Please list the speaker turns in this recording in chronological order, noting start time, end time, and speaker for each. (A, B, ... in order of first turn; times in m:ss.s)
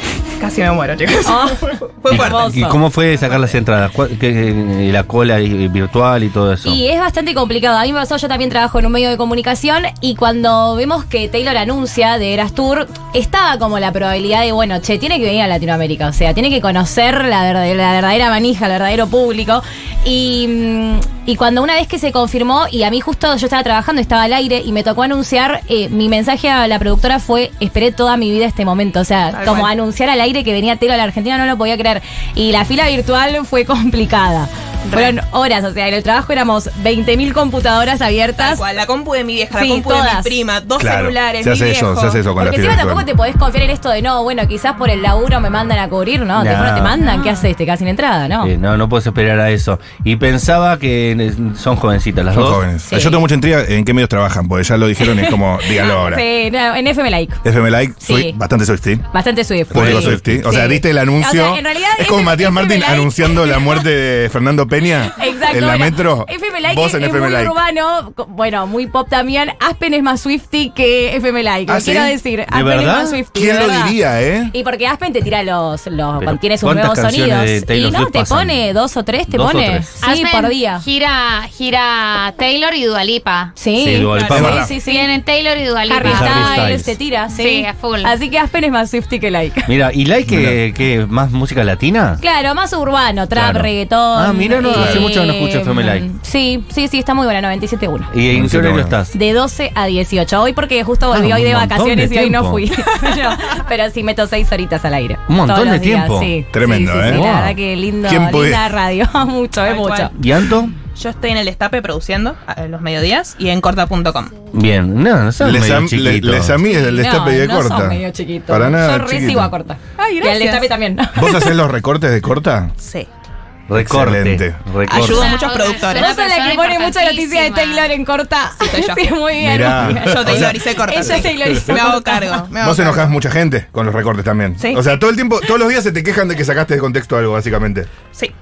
0:00.4-0:02.6 A
0:01.2-0:02.8 B
0:02.1-0:06.8 C
0:03.2-0:03.5 A
0:06.6-0:38.6 B
0:29.3-0:29.7 A
0:34.9-0:35.1 A
0:38.4-0:42.2 A
0:39.6-0:40.3 B
0:40.8-0:43.0 D
0:42.4-0:48.5 B
0:46.4-0:47.0 C
0:48.4-0:52.6 C
0:52.3-0:56.2 D
0:52.9-0:53.2 B
0:55.0-0:57.4 B
0:57.4-0:59.1 D
0:58.0-0:58.4 B
0:59.1-1:03.8 B
0:59.7-1:00.2 C
0:59.7-1:07.6 D
1:05.1-1:14.0 B
1:11.7-1:12.2 D
1:12.5-1:13.2 C
1:13.3-1:14.5 D
1:14.5-1:20.8 B
1:16.2-1:18.6 C
1:19.3-1:19.9 C
1:20.0-1:23.5 E
1:23.6-1:25.1 B
1:23.8-1:24.7 C
1:24.1-1:24.4 A
1:24.3-1:24.7 D
1:24.5-1:26.7 E
1:25.9-1:29.7 B
1:26.0-1:27.0 C
1:27.3-1:28.2 E
1:29.7-1:32.2 C
1:30.3-1:30.6 D
1:32.2-1:38.1 B
1:33.3-1:36.1 C
1:34.7-1:35.0 D
1:38.1-1:39.1 C
1:38.3-1:38.9 D
1:39.1-1:50.1 B
1:41.1-1:42.6 C
1:45.3-1:46.3 C
1:46.5-1:47.2 D
1:47.1-1:47.5 C
1:48.0-1:48.7 D
1:49.6-1:50.1 A
1:50.1-1:50.7 C
1:51.0-1:54.3 A
1:54.5-1:56.6 C
1:55.4-1:59.5 D
1:56.6-2:01.4 B
2:00.0-2:00.7 A
2:01.1-2:02.7 D
2:02.8-2:03.1 A
2:03.7-2:05.4 C
2:03.7-2:04.6 D
2:04.8-2:06.2 A
2:05.0-2:07.9 E
2:05.8-2:12.4 B
2:08.6-2:09.1 A
2:09.4-2:10.5 D
2:09.9-2:13.1 A
2:12.6-2:17.9 D